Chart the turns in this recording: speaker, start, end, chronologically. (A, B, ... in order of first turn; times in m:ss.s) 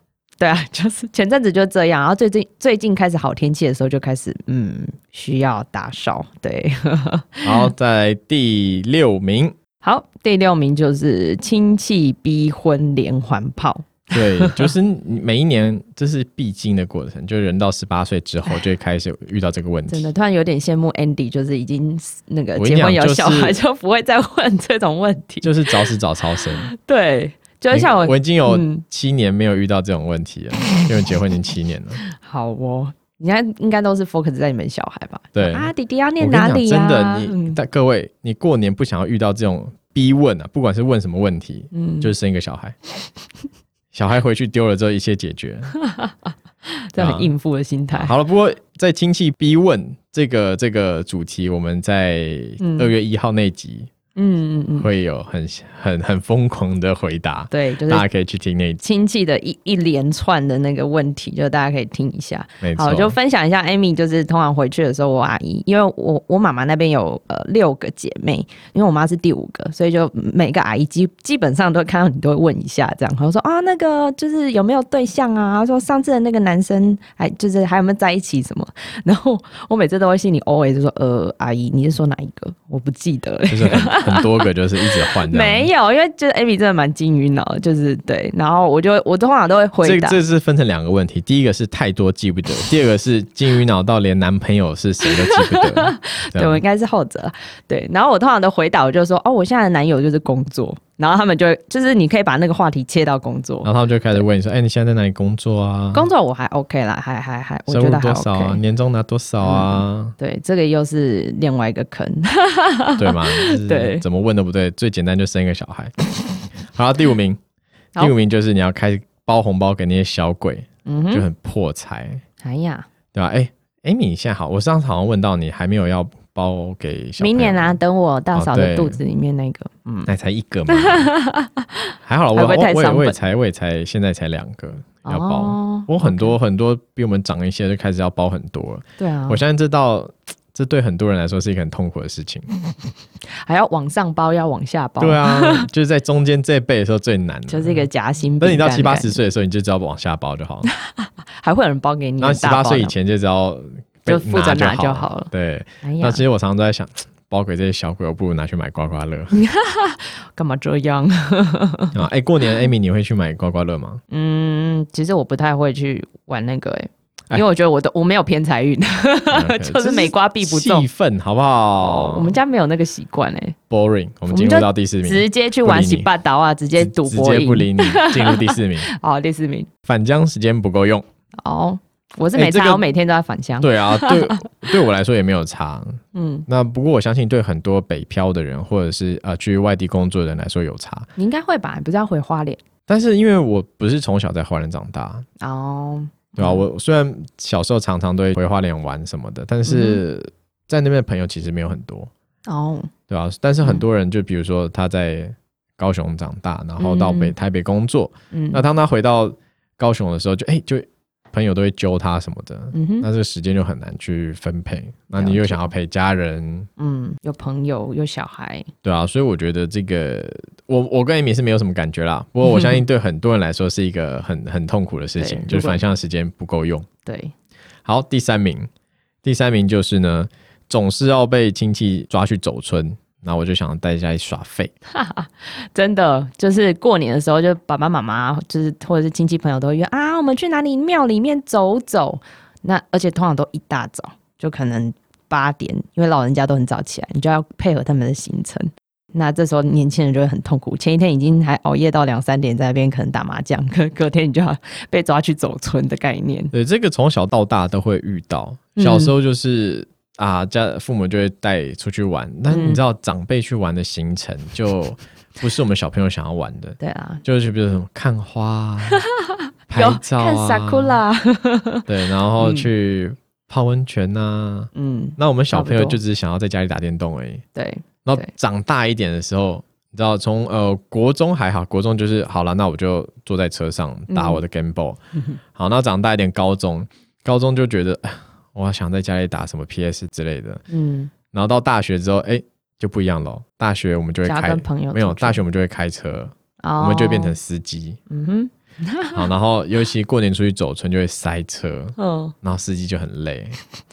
0:00.4-0:07.7 A
0:07.4-0:09.6 B
0:09.8-0:14.7 A
0:14.1-0:20.1 B
0:19.9-0:25.7 A
0:22.6-0:23.6 B
0:25.4-0:26.7 B
0:26.7-0:28.8 A
0:27.7-0:32.0 B
0:32.2-0:37.6 A
0:35.4-0:42.8 B
0:41.7-0:42.1 A
0:43.9-0:45.7 B
0:45.8-0:46.1 A
0:46.7-0:48.1 A
0:47.0-0:47.3 B
0:47.9-0:53.9 B
0:52.6-0:52.9 A
0:54.2-0:54.9 A
0:54.8-0:58.8 B
0:57.5-0:58.1 A
0:58.8-1:24.4 A
1:02.6-1:03.2 B
1:23.5-1:25.7 B
1:25.1-1:30.2 A
1:29.8-1:36.6 B
1:35.0-1:44.2 A
1:43.6-1:46.1 B
1:45.9-1:48.6 A
1:47.7-1:50.2 B
1:49.4-1:54.0 A
1:53.0-1:56.1 B
1:56.6-1:57.4 B
1:58.0-2:02.2 B
2:00.9-2:01.3 A
2:02.4-2:02.9 A
2:03.1-2:07.8 B
2:07.2-2:10.1 A
2:08.3-2:09.0 B
2:10.1-2:11.1 B
2:10.7-2:11.8 A
2:12.0-2:22.5 B
2:12.3-2:13.2 A
2:15.0-2:16.4 A
2:19.0-2:19.4 A
2:23.4-2:25.7 A
2:25.0-2:27.9 B
2:27.5-2:29.2 A
2:28.4-2:30.7 B
2:30.8-2:32.9 A
2:32.2-2:39.4 B
2:34.1-2:35.3 A
2:35.8-2:36.2 A
2:39.3-2:42.6 A
2:41.9-2:44.0 B
2:44.1-2:50.9 A
2:49.3-2:52.4 B
2:51.8-2:53.6 A
2:53.7-2:56.1 B
2:54.3-2:59.7 A
2:56.8-2:58.9 B
2:59.8-3:01.0 B
3:01.4-3:04.4 A
3:02.3-3:02.8 B
3:03.6-3:11.1 B
3:06.1-3:06.5 A
3:11.2-3:12.6 A
3:12.9-3:15.2 B
3:15.4-3:16.6 A
3:16.4-3:22.1 B
3:19.7-3:20.0 A
3:22.5-3:22.9 A
3:23.1-3:36.7 B
3:26.8-3:27.4 A
3:28.3-3:28.6 A
3:32.7-3:33.1 A
3:35.1-3:35.7 A
3:36.8-3:38.7 A
3:38.8-3:46.9 B
3:42.4-3:42.8 A
3:45.2-3:45.8 A
3:47.0-3:47.3 A
3:47.9-3:48.7 B
3:49.2-3:54.7 B
3:54.9-4:16.5 A
4:16.5-4:29.0 B
4:18.8-4:19.1 A
4:22.5-4:22.8 A
4:26.8-4:27.2 A
4:28.9-4:31.9 A
4:29.7-4:31.0 B
4:31.9-4:37.4 B
4:32.4-4:32.7 A
4:34.8-4:36.0 A
4:37.6-4:38.3 A
4:38.0-4:45.0 B
4:44.1-4:44.4 A
4:45.6-4:50.6 B
4:50.7-4:51.1 A
4:51.3-4:58.0 B
4:54.2-4:55.4 A
4:56.6-4:57.4 A
4:58.1-4:59.3 A
4:59.2-5:03.6 B
5:02.0-5:02.3 A